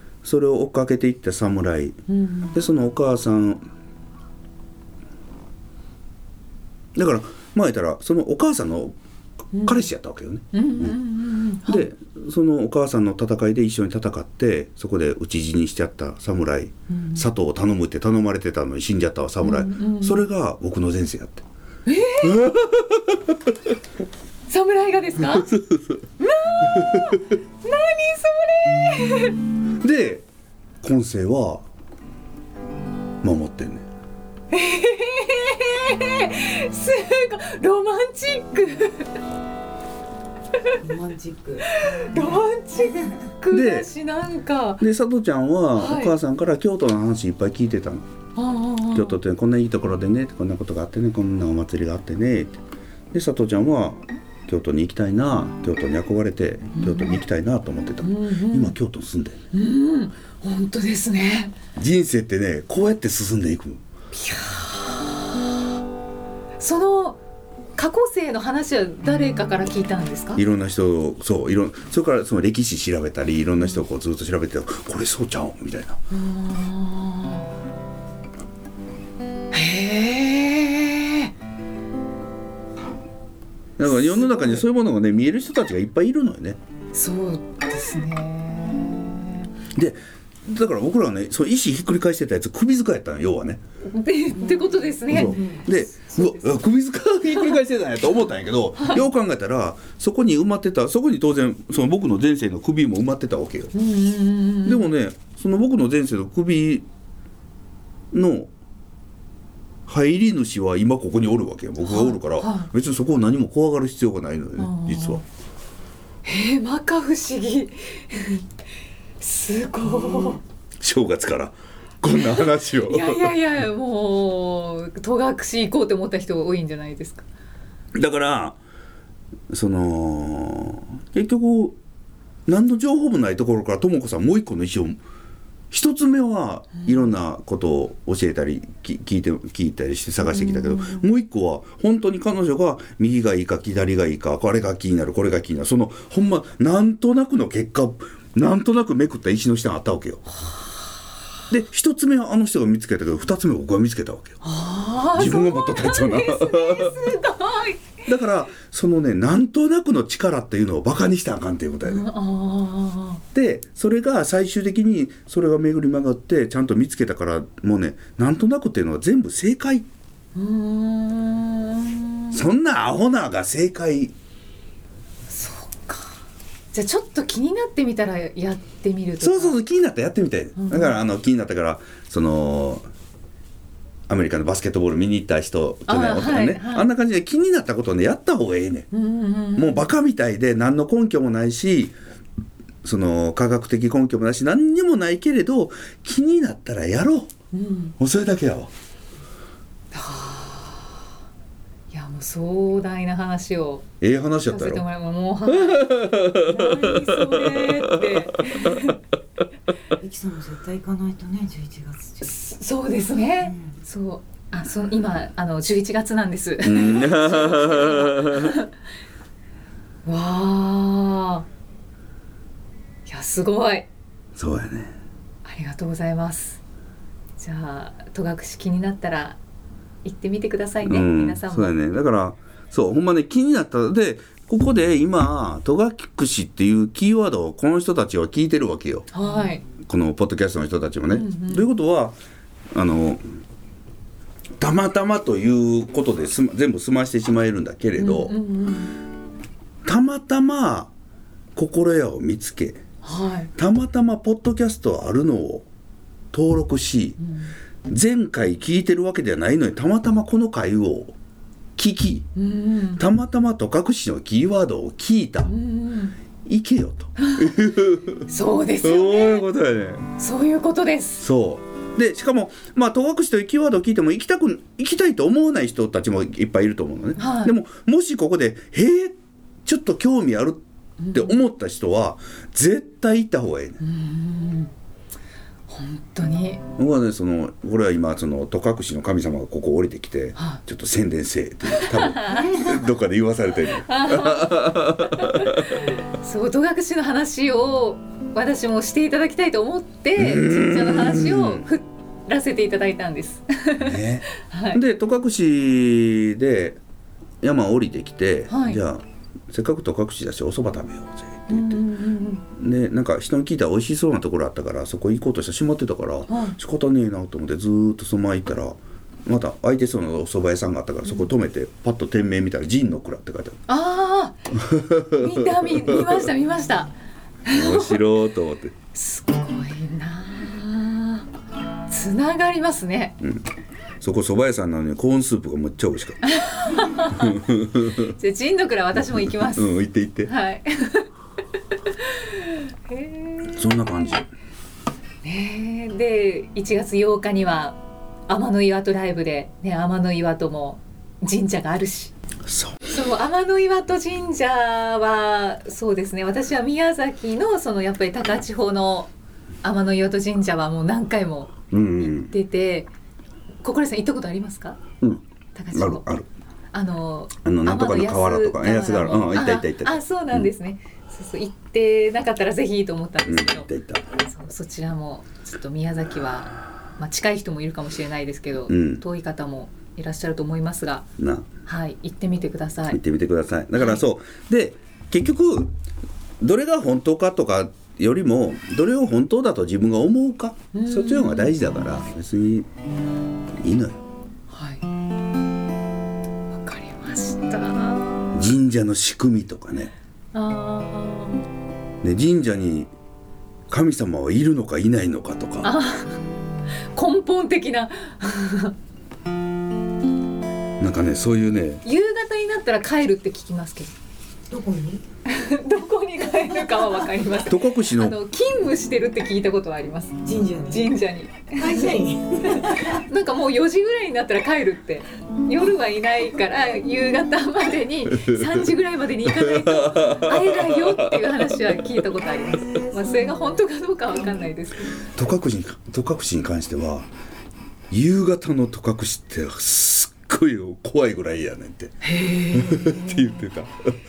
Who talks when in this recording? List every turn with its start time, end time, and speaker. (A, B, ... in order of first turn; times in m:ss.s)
0:00.2-0:02.0 A
0:02.1-0:02.6 B
0:02.5-0:03.6 A
0:07.0-0:09.0 A
0:09.5-0:09.8 B
0:09.6-0:11.0 A
0:10.5-0:11.9 B
0:11.7-0:21.4 A
0:16.9-0:17.2 B
0:19.4-0:20.2 B
0:21.9-0:22.4 B
0:22.2-0:23.5 A
0:24.5-0:25.6 B
0:25.2-0:26.0 A
0:26.2-0:29.4 B
0:26.6-0:27.2 A
0:29.8-0:30.2 A
0:30.8-0:31.6 A
0:33.2-0:33.9 A
0:34.5-0:39.1 B
0:40.8-0:43.1 C
0:41.7-0:44.8 B
0:43.5-0:43.9 A
0:44.8-0:48.1 A
0:45.8-0:46.2 B
0:48.4-0:49.2 B
0:48.9-0:52.6 A
0:53.1-0:59.4 A
0:56.8-0:57.2 B
0:58.0-0:58.8 B
0:59.5-1:01.6 B
1:01.8-1:03.8 A
1:04.1-1:05.7 B
1:06.6-1:07.2 B
1:07.8-1:10.4 B
1:10.4-1:16.0 A
1:16.1-1:17.5 B
1:19.5-1:21.3 B
1:23.8-1:26.6 A
1:23.8-1:24.6 B
1:26.9-1:29.5 B
1:29.7-1:33.6 A
1:33.8-1:36.5 B
1:34.4-1:35.7 C
1:35.1-1:43.7 A
1:43.7-1:44.9 B
1:44.6-1:46.9 A
1:48.1-1:48.5 A
1:49.9-1:55.2 A
1:51.8-1:52.7 B
1:54.6-1:55.2 B
1:56.2-1:58.4 B
1:59.2-2:00.4 B
2:00.8-2:03.4 A
2:02.1-2:07.2 B
2:07.9-2:08.6 A
2:09.5-2:11.8 A
2:12.5-2:15.0 A
2:15.7-2:30.3 A
2:20.2-2:21.0 B
2:31.5-2:34.4 A
2:34.4-2:37.9 B
2:35.2-2:37.2 A
2:38.0-2:42.1 A
2:41.8-2:43.2 B
2:43.3-2:49.9 A
2:50.4-2:52.4 B
2:52.3-2:54.2 A
2:55.3-2:56.2 B
2:56.7-2:59.6 B
2:59.2-3:02.8 A
3:00.6-3:01.0 B
3:04.1-3:08.9 A
3:05.9-3:06.9 B
3:08.9-3:09.9 B
3:09.6-3:11.9 A
3:12.8-3:17.3 A
3:17.5-3:18.0 B
3:18.0-3:18.7 A
3:19.9-3:21.0 B
3:21.9-3:23.9 B
3:24.0-3:24.8 A
3:24.5-3:29.0 B
3:25.5-3:28.9 A
3:26.6-3:27.0 C
3:30.0-3:32.4 C
3:32.2-3:38.7 B
3:33.4-3:33.8 C
3:36.6-3:38.6 A
3:40.0-3:41.5 B
3:43.1-3:43.9 B
3:44.4-3:45.0 A
3:45.4-3:46.6 B
3:47.4-3:49.4 B
3:50.0-3:51.7 B
3:50.8-3:59.1 A
3:59.1-3:59.6 B
3:59.8-4:02.2 A
4:01.1-4:01.7 B
4:02.7-4:03.2 A
4:04.6-4:08.4 A
4:08.0-4:09.0 B
4:09.8-4:10.9 A
4:11.6-4:12.8 A
4:13.0-4:13.5 B
4:13.6-4:15.7 A
4:16.3-4:17.2 A
4:17.2-4:17.5 B
4:17.9-4:21.2 A
4:21.8-4:22.3 A
4:22.4-4:23.0 B
4:23.0-4:25.5 A
4:25.5-4:26.2 B
4:26.4-4:28.3 A
4:27.2-4:27.5 B
4:28.3-4:29.5 B
4:28.8-4:30.1 A
4:30.2-4:31.3 B
4:31.2-4:43.8 A
4:37.2-4:37.5 B
4:41.0-4:41.4 B
4:43.8-4:44.7 B
4:45.7-4:46.6 B
4:46.8-4:55.9 A
4:50.4-4:50.6 B
4:51.7-4:52.7 B
4:53.8-5:04.8 B
5:00.2-5:01.6 A
5:03.8-5:06.8 A
5:07.4-5:11.8 A
5:08.5-5:08.8 B
5:11.5-5:12.4 B
5:12.5-5:23.6 A
5:16.3-5:16.6 B
5:23.7-5:26.9 B
5:24.6-5:26.3 A
5:27.4-5:28.0 B
5:27.5-5:28.7 A
5:28.9-5:31.3 B
5:31.9-5:33.2 B
5:33.2-5:33.5 A
5:34.0-5:36.2 A
5:36.2-5:41.1 B
5:37.0-5:38.1 A
5:39.1-5:40.3 A
5:41.8-5:43.6 B
5:43.5-5:44.3 A
5:45.2-5:52.1 B
5:52.5-5:52.8 A
5:52.9-5:59.1 B
5:59.6-6:02.9 B
6:01.7-6:02.3 A
6:03.6-6:04.8 B
6:05.0-6:06.3 A
6:05.6-6:06.0 B
6:06.7-6:13.7 B
6:07.4-6:10.5 A
6:13.3-6:14.1 A
6:14.2-6:21.1 B
6:18.7-6:19.0 A
6:21.2-6:21.5 A
6:21.7-6:23.0 B
6:22.9-6:25.7 A
6:26.4-6:32.7 A
6:30.7-6:31.5 B
6:33.6-6:34.0 A
6:34.5-6:34.8 B
6:36.5-6:38.4 B
6:38.3-6:39.9 A
6:40.3-6:41.4 B
6:42.0-6:42.9 A
6:43.7-6:45.7 A
6:45.6-6:46.2 B
6:46.9-6:48.8 B
6:50.8-6:51.8 A
6:51.8-6:53.9 B
6:54.5-6:55.0 C
6:55.3-7:15.0 B
6:57.5-6:58.2 A
7:00.2-7:01.0 C
7:01.6-7:03.0 C
7:08.1-7:08.7 A
7:09.2-7:11.8 A
7:15.2-7:17.1 A
7:17.9-7:22.0 A
7:22.0-7:23.4 B
7:22.5-7:24.0 A